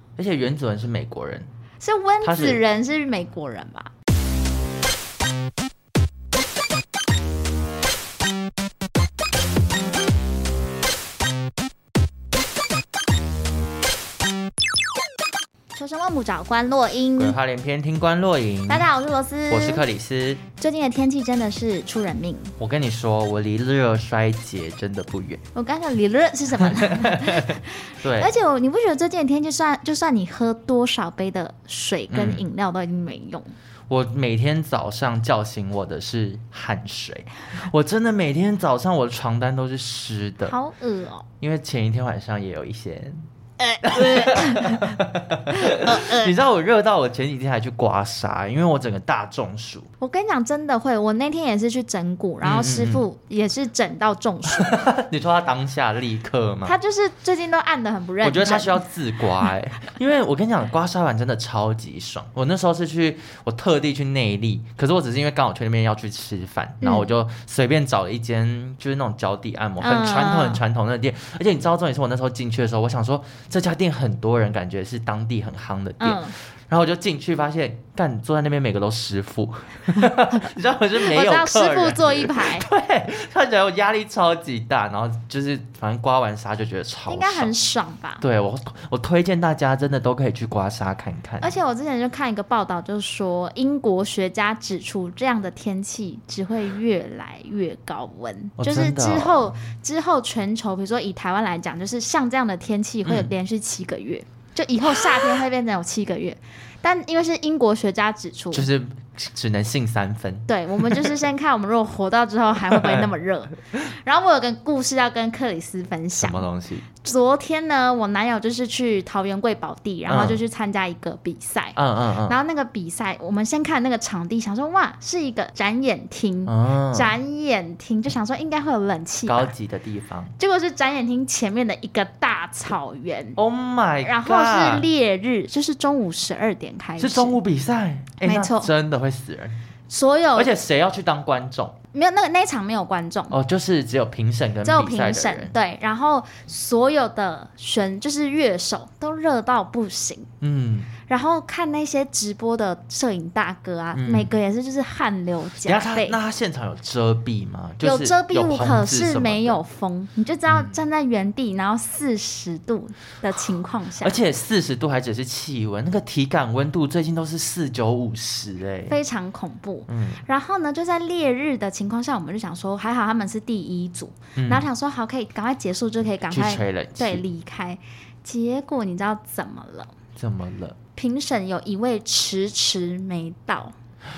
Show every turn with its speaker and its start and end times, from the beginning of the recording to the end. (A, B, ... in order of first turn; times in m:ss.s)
0:00.2-0:01.5 A
0:01.8-0:03.9 B
0:02.2-0:02.6 A
0:15.7-0:17.4 B
0:17.2-0:18.9 A
0:18.7-0:19.8 B
0:19.5-0:20.4 A
0:20.6-0:22.5 B
0:22.6-0:25.4 A
0:25.5-0:33.5 B
0:26.6-0:28.3 A
0:32.1-0:32.4 A
0:33.9-0:40.5 A
0:40.4-0:41.3 B
0:41.4-0:43.3 A
0:43.6-0:45.0 B
0:43.8-0:49.9 A
0:45.5-0:46.3 B
0:50.0-0:54.7 B
0:52.4-0:53.0 A
0:54.6-0:56.7 A
0:56.6-0:58.8 B
0:58.2-1:27.5 A
1:06.8-1:07.1 B
1:09.8-1:10.6 B
1:16.0-1:16.3 B
1:21.0-1:22.7 B
1:27.1-1:28.2 B
1:28.2-1:31.5 A
1:31.4-1:48.7 B
1:38.6-1:39.6 A
1:43.0-1:43.3 A
1:44.9-1:45.3 A
1:48.5-1:51.1 A
1:50.5-2:09.5 B
1:52.7-1:53.1 A
1:56.2-1:56.9 A
2:00.1-2:00.4 A
2:01.8-2:02.4 A
2:06.5-2:07.1 A
2:09.3-2:10.3 A
2:10.4-2:13.4 B
2:13.4-2:14.9 A
2:14.0-2:17.4 B
2:17.0-2:19.6 A
2:18.2-2:18.7 B
2:19.9-2:20.5 B
2:20.4-2:21.8 A
2:21.9-2:23.4 B
2:23.3-2:25.5 A
2:24.6-2:30.3 B
2:30.4-2:30.9 A
2:31.1-2:36.2 B
2:33.9-2:34.3 A
2:35.6-2:39.6 A
2:37.8-2:44.2 B
2:40.5-2:40.7 A
2:44.0-2:49.0 A
2:48.9-2:59.9 B
2:49.9-2:50.2 A
2:54.4-2:54.7 A
2:56.3-2:57.2 A
3:00.2-3:00.8 A
3:00.9-3:03.7 B